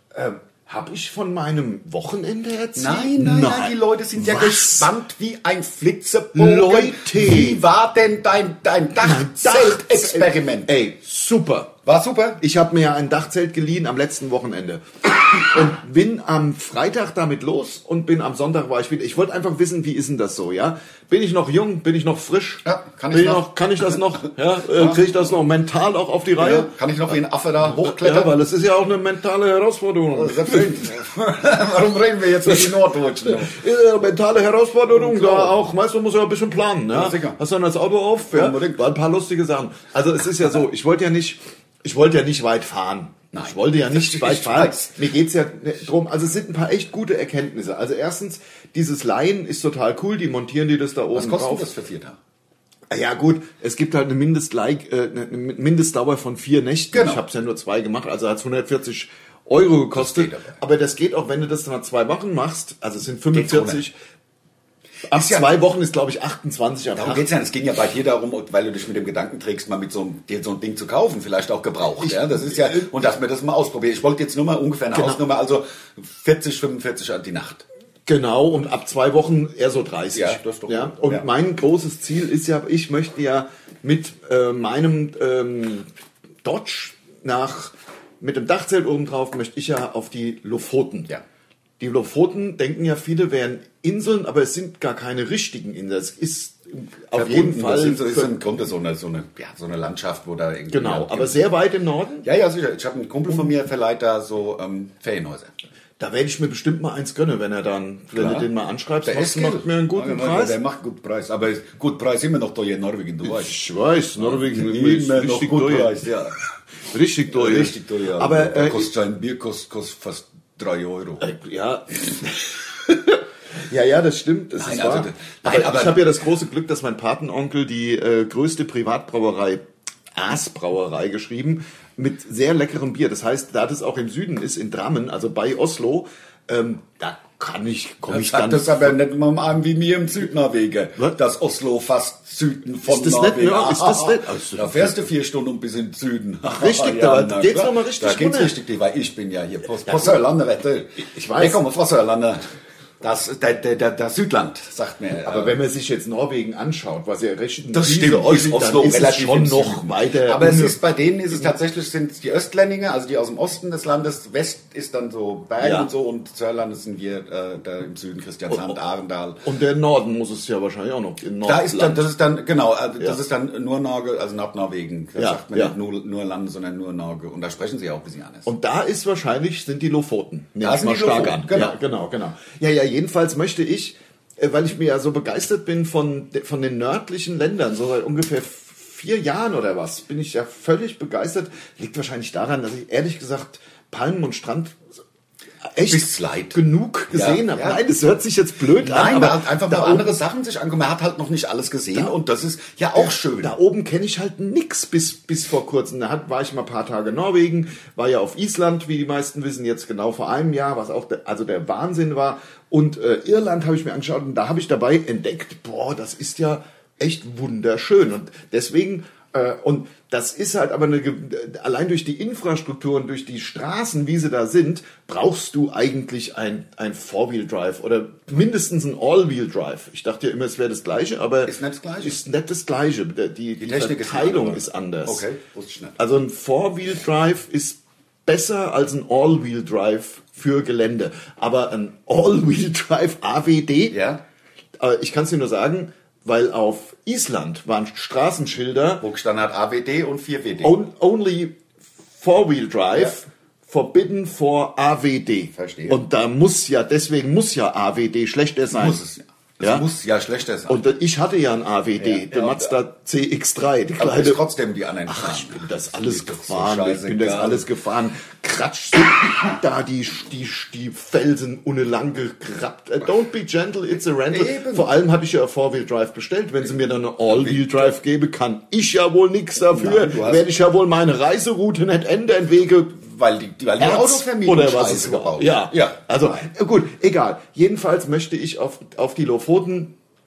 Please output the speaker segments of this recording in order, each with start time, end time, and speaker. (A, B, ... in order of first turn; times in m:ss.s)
0:00.1-0:04.9 A
0:02.8-0:10.7 B
0:06.3-0:07.6 A
0:09.0-0:11.7 A
0:11.8-0:12.4 B
0:12.4-0:30.9 A
0:22.6-0:25.1 B
0:26.4-0:28.3 B
0:30.1-0:33.6 B
0:32.4-0:51.7 A
0:34.9-0:35.5 B
0:36.9-0:37.4 B
0:38.3-0:38.8 B
0:43.3-0:44.9 B
0:51.1-0:52.2 B
0:52.9-1:04.0 A
0:56.9-0:57.2 B
0:59.9-1:00.6 B
1:03.3-1:03.8 B
1:05.1-1:07.2 A
1:05.1-1:05.5 B
1:07.0-1:17.6 B
1:12.0-1:12.9 A
1:14.9-1:15.2 A
1:18.0-1:25.9 A
1:20.1-1:21.3 B
1:26.4-1:31.1 A
1:31.8-1:38.3 A
1:37.1-1:41.5 B
1:40.7-1:42.2 A
1:42.2-1:45.5 B
1:46.0-1:50.6 A
1:48.1-1:48.5 B
1:49.0-1:53.6 B
1:53.2-1:56.0 A
1:54.2-1:56.4 B
1:56.9-1:58.9 A
1:57.3-2:01.3 B
2:01.2-2:09.6 A
2:04.6-2:06.0 B
2:10.1-2:19.0 A
2:18.1-2:32.5 B
2:22.8-2:25.0 A
2:26.5-2:28.6 A
2:29.9-2:30.2 A
2:31.0-2:31.6 A
2:33.0-2:35.6 B
2:35.2-2:40.8 A
2:37.7-2:49.4 B
2:45.6-2:45.9 A
2:48.5-2:48.8 A
2:49.4-2:52.1 A
2:51.4-2:58.5 B
2:55.2-2:55.8 A
2:58.4-3:14.8 A
3:00.6-3:01.8 B
3:15.7-3:20.2 A
3:15.8-3:16.6 B
3:17.1-3:17.8 B
3:18.8-3:23.5 B
3:23.4-3:55.2 A
3:51.4-3:52.2 B
3:53.6-3:56.0 B
3:56.0-4:04.0 A
4:03.9-4:04.2 B
4:04.8-4:09.0 A
4:09.0-4:10.8 B
4:10.6-4:11.6 A
4:12.2-4:19.0 A
4:15.5-4:16.0 B
4:18.7-4:20.8 B
4:20.7-4:24.4 A
4:22.0-4:22.7 B
4:24.0-4:27.7 B
4:25.0-4:43.0 A
4:34.3-4:34.9 B
4:37.3-4:37.9 B
4:39.6-4:40.4 B
4:43.0-4:46.4 B
4:43.8-4:49.9 A